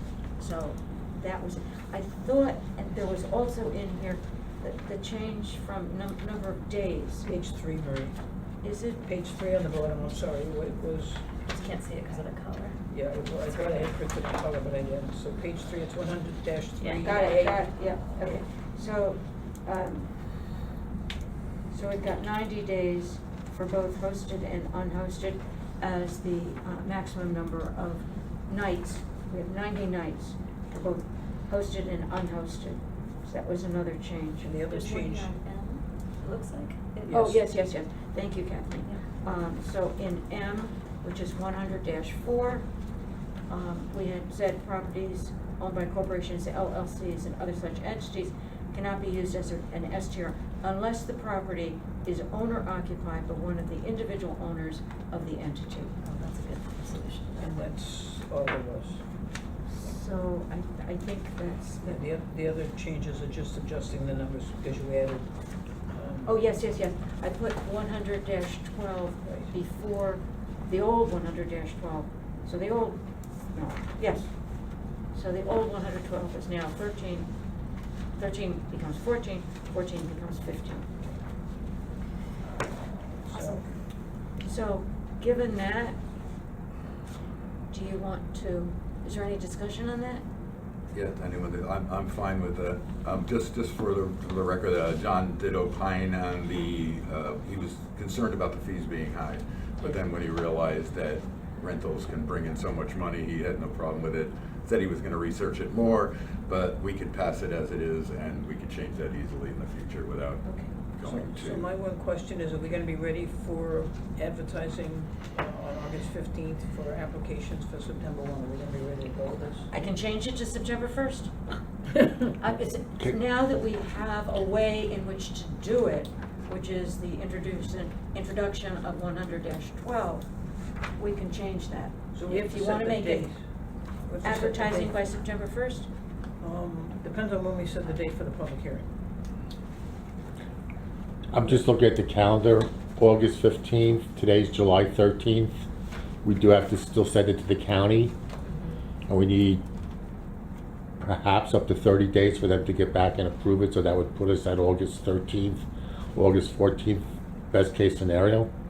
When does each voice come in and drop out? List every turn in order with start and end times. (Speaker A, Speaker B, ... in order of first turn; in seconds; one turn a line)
Speaker A: 0.4-7.3
Speaker B: 7.2-8.2
Speaker A: 8.6-9.0
Speaker B: 9.0-11.3
Speaker C: 11.5-12.8
Speaker B: 12.9-18.4
Speaker C: 16.8-17.0
Speaker A: 17.0-20.1
Speaker A: 21.7-34.5
Speaker B: 34.4-35.3
Speaker C: 34.7-37.3
Speaker B: 37.1-37.4
Speaker A: 37.1-42.6
Speaker A: 43.5-56.0
Speaker C: 56.0-57.6
Speaker B: 57.4-59.0
Speaker A: 59.7-62.1
Speaker B: 61.9-65.3
Speaker B: 65.9-66.4
Speaker A: 66.2-73.0
Speaker B: 69.2-69.5
Speaker A: 73.5-74.5
Speaker A: 75.1-77.3
Speaker A: 78.2-80.9
Speaker B: 82.5-83.7
Speaker A: 83.3-83.7
Speaker A: 84.4-86.0
Speaker A: 87.7-90.2
Speaker D: 90.9-110.5
Speaker A: 110.5-110.7
Speaker D: 111.0-111.7
Speaker B: 111.0-119.7
Speaker A: 119.7-121.3
Speaker A: 122.4-130.3
Speaker A: 131.0-133.3
Speaker B: 132.2-133.4
Speaker B: 134.1-135.0
Speaker A: 134.2-135.9
Speaker B: 136.4-138.9
Speaker E: 141.3-145.6
Speaker E: 146.2-148.1
Speaker C: 148.5-148.8
Speaker E: 149.1-149.6
Speaker E: 151.0-158.5